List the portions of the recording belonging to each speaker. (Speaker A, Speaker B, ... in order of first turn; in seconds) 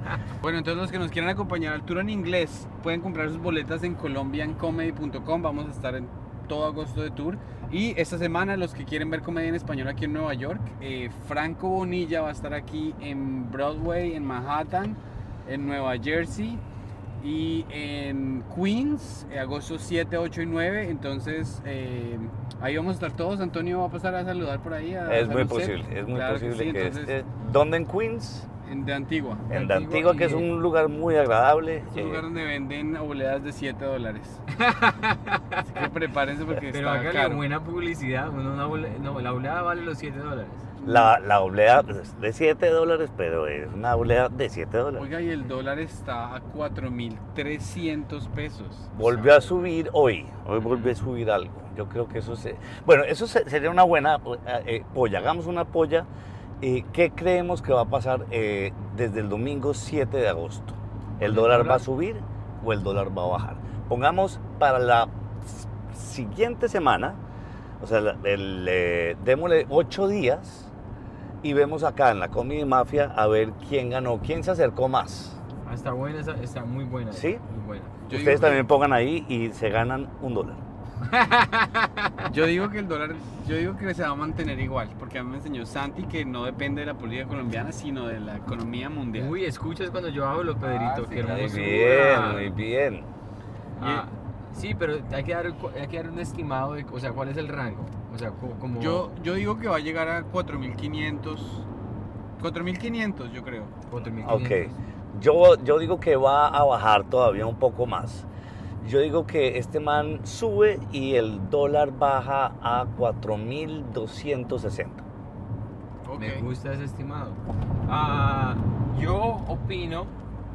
Speaker A: 0.4-16.6, 17.2-27.2, 28.6-29.5, 31.9-34.4, 35.6-37.4, 40.8-41.1, 45.0-49.7, 78.0-78.6, 82.3-89.4, 90.6-92.2, 93.8-94.1, 98.8-101.7, 102.4-103.8, 116.0-116.5
Speaker B: 25.1-28.5, 29.5-32.2, 40.8-45.1, 49.0-56.1, 56.6-67.2, 67.8-70.7, 71.4-75.4, 77.1-77.4, 78.1-80.6, 91.2-93.1, 104.2-108.3, 108.8-115.0
Speaker C: 29.5-30.5, 34.5-35.6, 36.7-40.7, 61.2-61.9, 75.6-78.0, 81.0-82.1, 89.2-92.5, 93.8-99.1, 103.9-104.8, 116.2-120.1